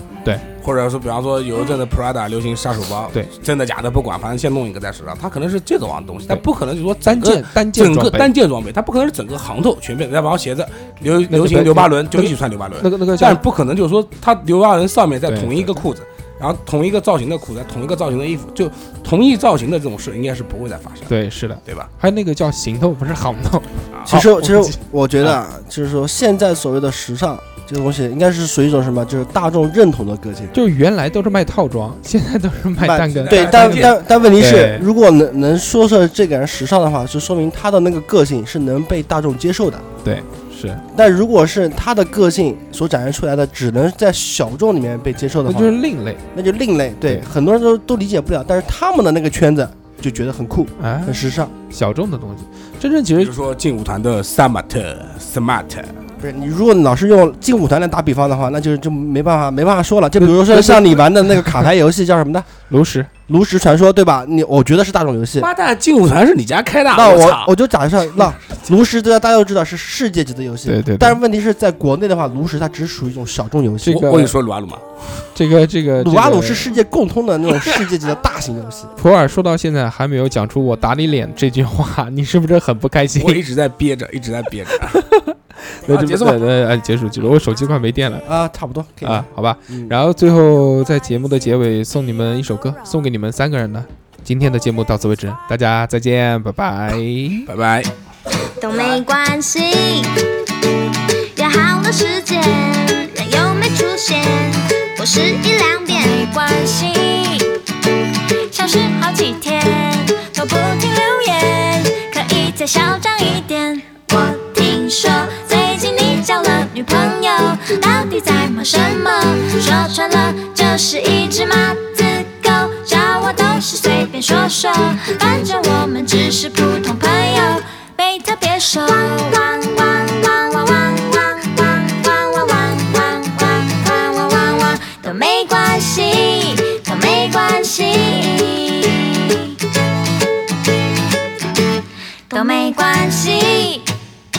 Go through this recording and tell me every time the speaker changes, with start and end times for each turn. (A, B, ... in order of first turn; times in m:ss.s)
0:00.6-0:21.1 A
0:07.0-0:08.3 B
0:11.3-0:13.4 B
0:15.3-0:15.8 B
0:21.1-0:25.4 B
0:23.9-0:24.2 A
0:24.1-0:30.5 C
0:30.5-0:34.8 B
0:32.8-0:39.9 C
0:33.2-0:33.9 A
0:40.0-0:40.8 B
0:40.9-0:45.8 C
0:45.5-0:46.2 B
0:46.3-0:51.5 C
0:50.8-0:53.3 B
0:53.2-0:56.0 A
0:56.2-1:02.5 C
1:00.2-1:01.6 B
1:02.7-1:03.1 B
1:03.3-1:05.5 C
1:05.4-1:07.5 A
1:06.9-1:14.2 C
1:10.6-1:11.2 B
1:13.8-1:14.3 B
1:13.9-1:15.2 A
1:15.3-1:16.7 B
1:16.0-1:18.9 C
1:19.0-1:23.4 B
1:23.2-1:25.0 A
1:24.9-1:28.3 B
1:25.9-1:26.4 A
1:28.2-1:29.9 C
1:29.0-1:37.5 B
1:37.5-1:37.9 A
1:38.6-1:40.2 D
1:38.7-1:39.0 A
1:41.3-1:47.6 D
1:48.5-2:19.6 D
2:22.3-2:23.9 D